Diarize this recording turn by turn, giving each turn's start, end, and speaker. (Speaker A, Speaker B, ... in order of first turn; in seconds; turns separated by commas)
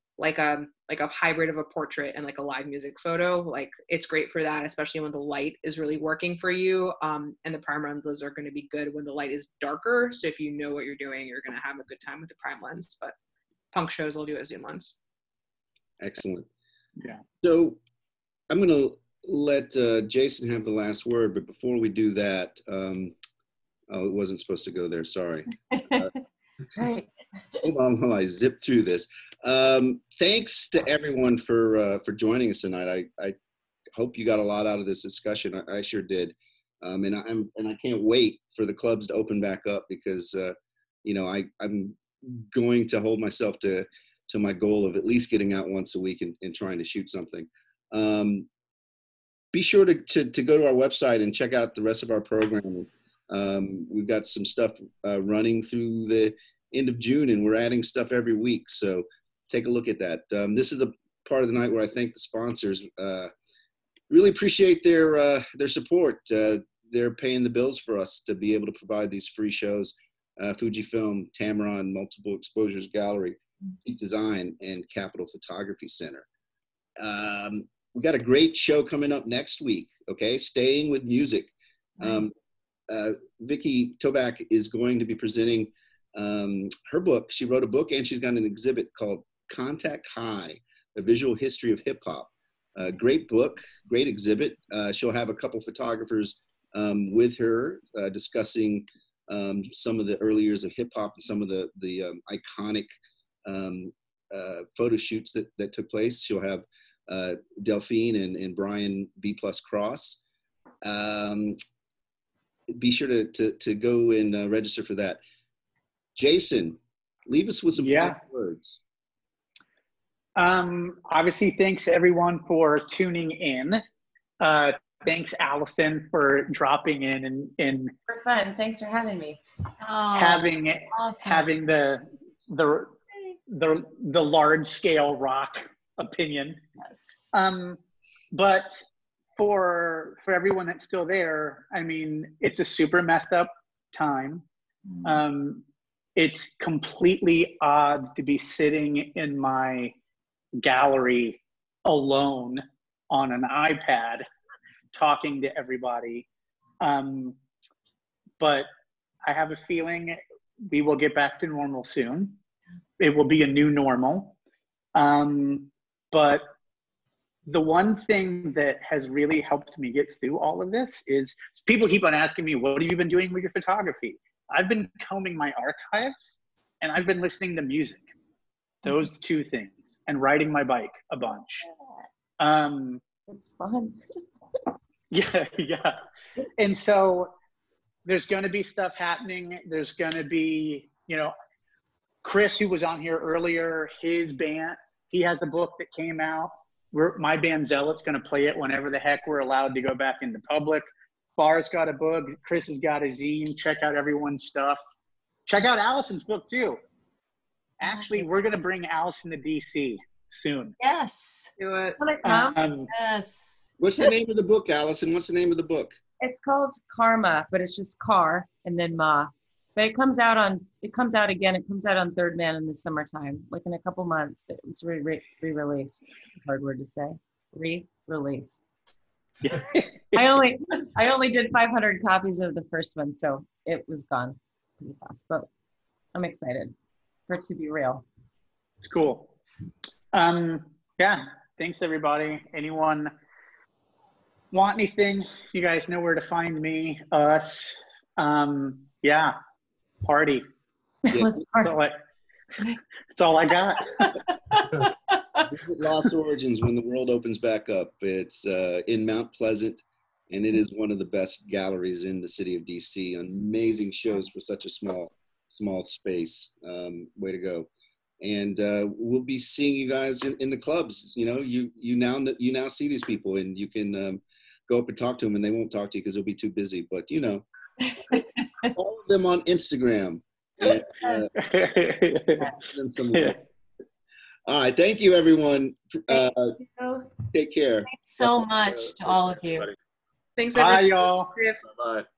Speaker A: 0.2-13.1, Speaker A: 13.7-14.9, Speaker B: 16.0-16.5, Speaker B: 17.4-17.8, Speaker B: 18.5-23.1, Speaker B: 23.9-26.1, Speaker C: 25.8-26.1, Speaker B: 27.6-33.4, Speaker B: 34.0-48.5, Speaker B: 49.5-63.3, Speaker B: 64.1-76.2, Speaker B: 77.0-82.3, Speaker B: 82.9-102.9, Speaker B: 103.5-110.2, Speaker B: 110.8-111.6, Speaker B: 112.7-115.2, Speaker B: 116.1-118.8, Speaker D: 117.8-118.2, Speaker D: 120.3-123.8, Speaker D: 124.4-127.9, Speaker E: 128.1-129.4, Speaker C: 129.8-131.5, Speaker D: 130.2-132.9, Speaker D: 133.5-136.6, Speaker C: 136.8-137.3, Speaker D: 137.3-137.8, Speaker D: 138.3-138.8, Speaker D: 139.4-144.4, Speaker C: 144.9-145.2, Speaker D: 145.0-145.6, Speaker D: 146.2-149.9, Speaker D: 150.6-154.2, Speaker D: 154.9-156.2, Speaker D: 156.8-157.4, Speaker D: 158.4-158.7, Speaker D: 159.2-162.4, Speaker D: 163.0-164.3, Speaker D: 164.9-166.4, Speaker D: 167.5-178.1, Speaker D: 178.8-181.7, Speaker C: 181.6-182.0, Speaker D: 182.4-183.0, Speaker E: 183.3-184.0, Speaker D: 185.1-186.0, Speaker D: 186.6-187.3, Speaker D: 188.1-191.3, Speaker D: 192.2-204.8, Speaker D: 205.5-206.8, Speaker D: 207.8-210.7, Speaker C: 207.8-208.4, Speaker C: 210.8-213.7, Speaker A: 211.6-212.0, Speaker D: 212.2-212.9, Speaker B: 213.8-215.9, Speaker E: 216.2-228.6, Speaker D: 229.4-230.2, Speaker E: 230.1-235.5, Speaker E: 236.1-236.7, Speaker E: 237.3-238.0, Speaker D: 238.8-239.3, Speaker D: 240.1-243.1, Speaker D: 244.5-249.4, Speaker D: 250.0-250.4, Speaker C: 251.1-251.8, Speaker B: 251.1-251.4, Speaker D: 251.6-252.0, Speaker D: 253.1-254.1, Speaker C: 254.0-254.9, Speaker B: 255.4-267.7, Speaker B: 268.2-277.4, Speaker C: 277.8-278.7, Speaker B: 278.6-281.4, Speaker C: 281.0-281.5, Speaker D: 281.4-282.5, Speaker B: 282.6-283.4, Speaker D: 283.1-283.4, Speaker B: 284.5-286.6, Speaker E: 286.6-287.0, Speaker B: 287.3-287.9, Speaker C: 287.9-289.7, Speaker A: 290.4-291.6, Speaker D: 290.5-291.3, Speaker B: 291.7-292.0